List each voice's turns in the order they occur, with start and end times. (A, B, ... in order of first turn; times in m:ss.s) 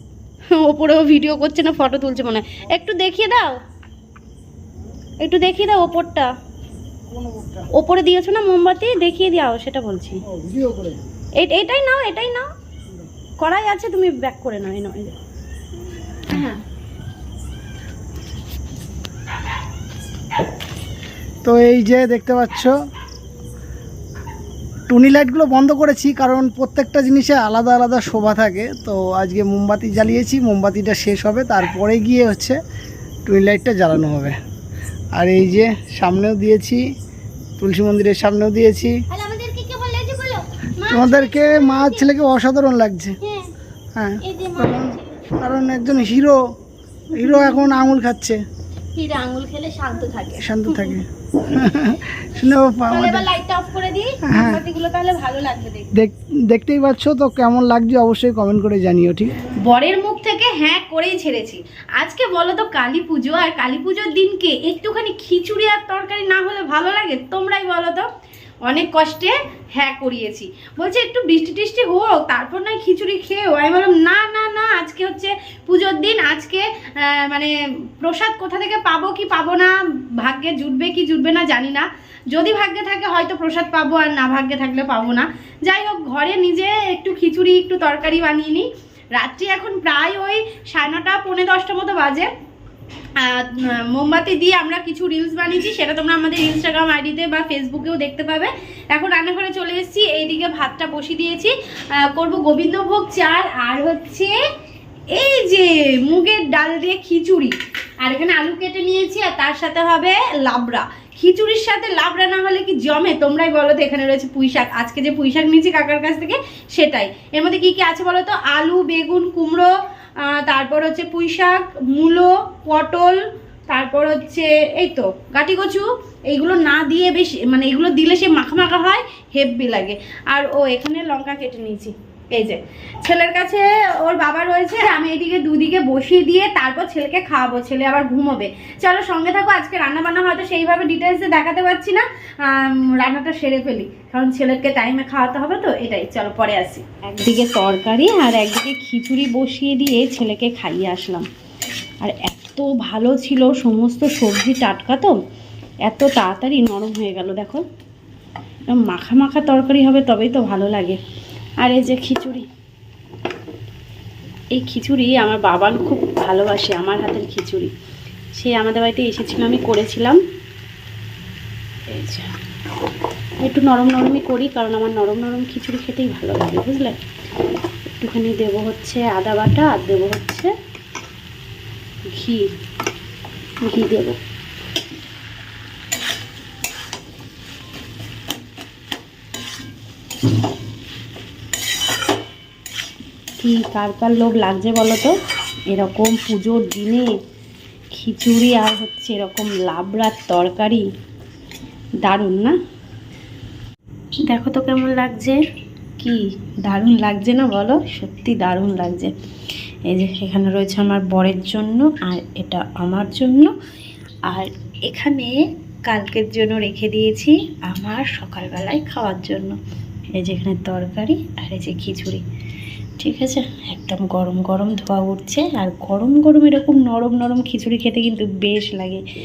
0:00.5-0:03.6 A
0:05.2-0:06.3 A
0:07.1-0:07.7 B
0:07.7-0:10.2 A
0:10.2-0:11.1 B
0:11.4-0:12.5 A
0:13.4-0:15.2 A
0:16.3-0:16.6 A
0:21.4-0:22.7 B
0:24.9-0:32.6 B
0:33.2-0:34.4 B
0:35.1-0:36.8 B
0:37.6-0:39.0 B
0:39.1-0:42.1 A
0:40.9-0:43.2 B
0:43.2-0:43.5 A
0:44.0-0:46.4 B
0:44.2-0:45.2 A
0:47.1-0:48.4 B
0:47.1-0:47.8 A
0:49.0-0:51.0 A
0:50.4-0:53.3 B
0:52.9-0:55.9 A
0:54.3-0:54.6 B
0:55.9-0:59.4 B
0:59.6-1:08.1 A
1:08.6-1:32.3 A
1:33.2-1:44.4 A
1:45.1-1:59.7 A
2:00.2-2:31.3 A
2:32.0-2:35.2 A
2:35.8-2:37.6 A
2:38.7-2:41.0 A
2:41.6-2:42.5 A
2:44.5-2:47.7 A
2:48.3-2:50.2 A
2:51.9-2:52.3 A
2:53.4-2:57.0 A
2:58.0-3:00.5 A
3:02.1-3:02.5 A
3:03.6-3:04.2 A
3:13.4-3:15.1 A
3:15.7-3:17.1 A
3:17.9-3:20.8 A
3:22.0-3:22.6 A
3:24.3-3:25.4 A
3:26.0-3:29.1 A
3:29.9-3:33.5 A
3:34.3-3:39.6 A
3:40.1-3:42.2 A
3:43.0-3:49.0 A